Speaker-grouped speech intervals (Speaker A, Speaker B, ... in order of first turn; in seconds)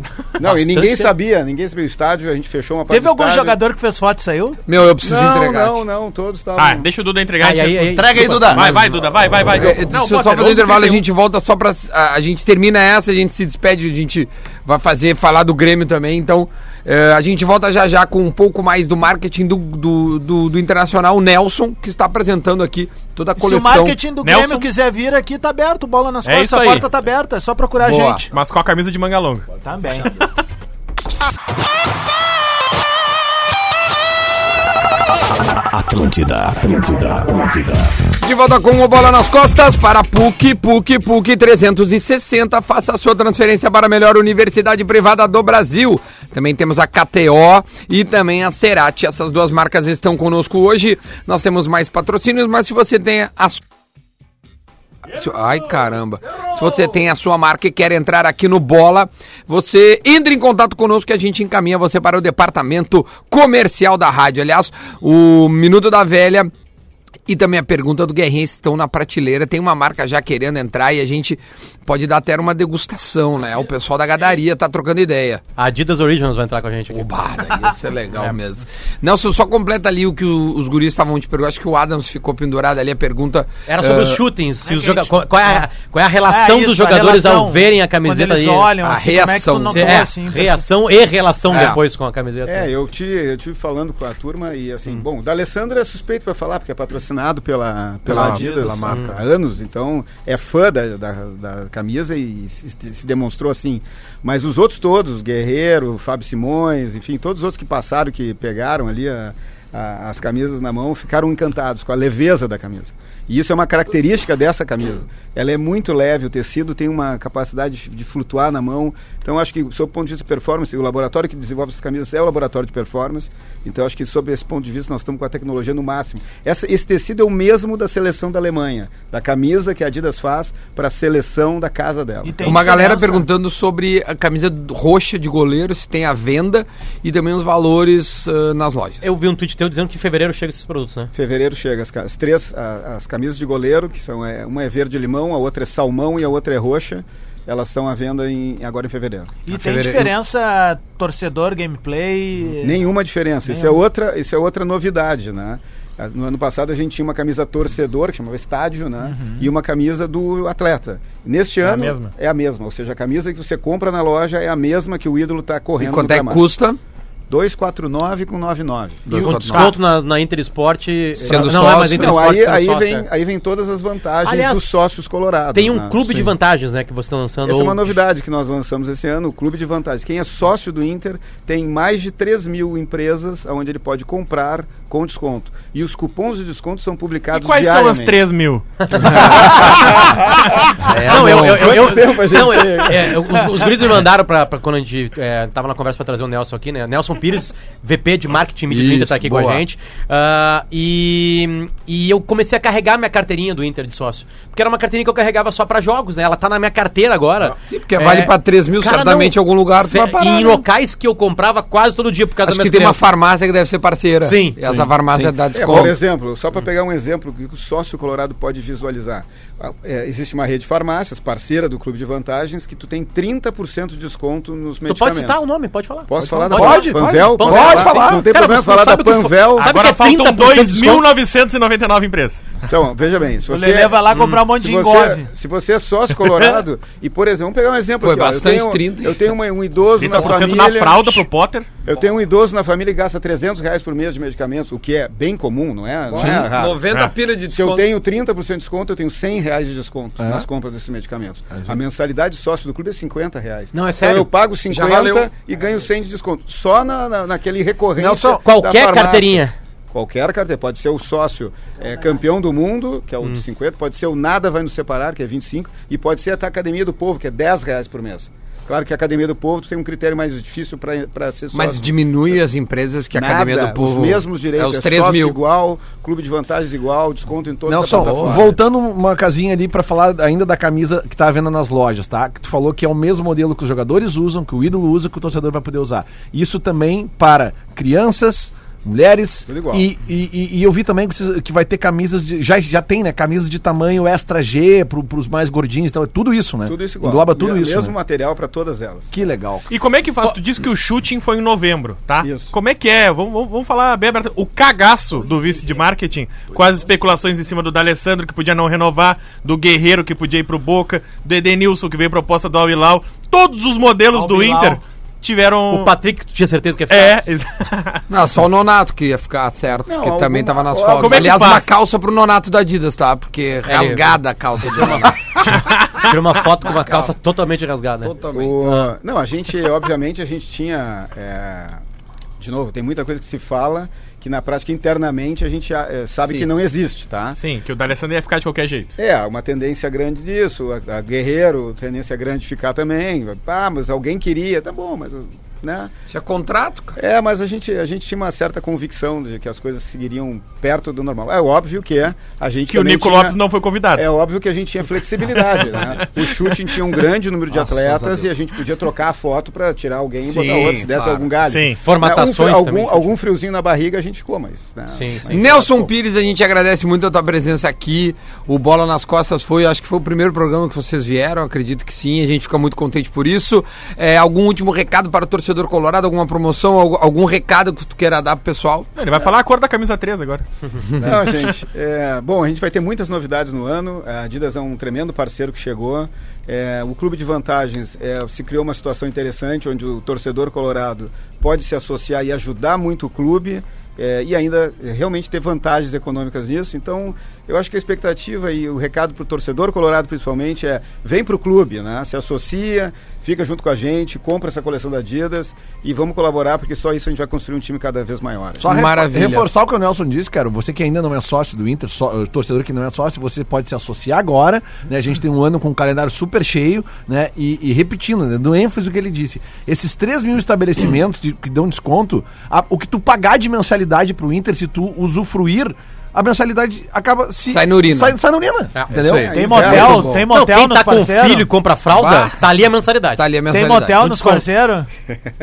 Speaker A: 0.4-3.6, 5.0-6.9, 92.5-132.6, 141.1-149.5, 152.6-166.5, 167.3-169.6, 171.2-176.3, 177.4-188.2, 189.0-193.4, 215.5-225.4, 226.1-229.7, 232.7-241.3, 241.8-246.9, 247.5-272.4, 273.1-278.6, 289.5-289.9, 296.7-299.1, 302.2-302.5, 319.9-321.6, 328.3-331.8, 332.4-337.4, 339.0-345.9, 347.0-353.4, 354.0-365.7, 381.0-408.7, 428.9-430.1
Speaker B: 0.4-1.1, 7.4-8.9, 75.6-77.2, 83.7-88.7, 89.7-92.7, 98.8-99.1, 139.0-141.1, 169.1-173.1, 174.2-174.8, 175.5-178.0, 188.8-189.9, 191.0-213.0, 214.2-214.6, 224.9-231.1, 253.7-254.3, 258.0-259.6, 315.7-317.2, 323.7-324.2, 325.9-328.9, 357.6-358.2, 361.8-363.1, 364.9-365.9, 430.3-433.2
Speaker C: 2.9-4.6, 23.4-28.3, 29.6-30.1, 84.7-85.7, 86.3-90.7, 98.2-98.6, 132.2-133.3, 149.5-152.8, 153.5-153.8, 159.0-159.5, 233.5-235.3, 314.1-314.8, 429.3-431.5, 433.5-434.9
Speaker D: 4.7-5.8, 9.4-24.0, 27.8-28.2, 38.2-53.6, 55.1-66.5, 67.3-75.4, 76.9-84.2, 88.8-90.1, 91.5-91.8, 98.1-99.2, 132.4-139.1, 149.5-150.1, 165.8-166.8, 169.1-169.8, 171.2-172.3, 189.0-189.9, 190.8-192.0, 198.7-199.6, 207.6-210.6, 212.4-216.0, 238.0-239.2, 246.1-247.9, 254.7-255.3, 271.5-275.4, 277.7-278.5, 318.1-325.3, 326.6-327.1, 328.0-328.7, 346.1-347.0, 360.2-361.3, 365.3-378.9, 408.7-409.5, 427.5-428.2, 429.0-430.2, 431.9-432.4, 433.2-434.4
Speaker E: 6.6-11.0, 24.2-24.7, 26.2-26.9, 28.3-29.5, 161.6-162.1, 187.3-188.7, 189.2-189.6, 229.6-232.6, 240.0-241.7, 299.7-315.9, 316.9-318.0, 321.0-321.7, 325.4-326.1, 337.4-339.0, 352.7-354.1, 355.4-357.0, 361.5-361.8, 379.0-380.4
Speaker F: 7.9-8.8, 35.5-37.9, 226.5-228.3, 246.2-246.4, 250.2-250.5, 251.6-251.8, 277.7-297.9, 299.1-299.7, 408.6-430.1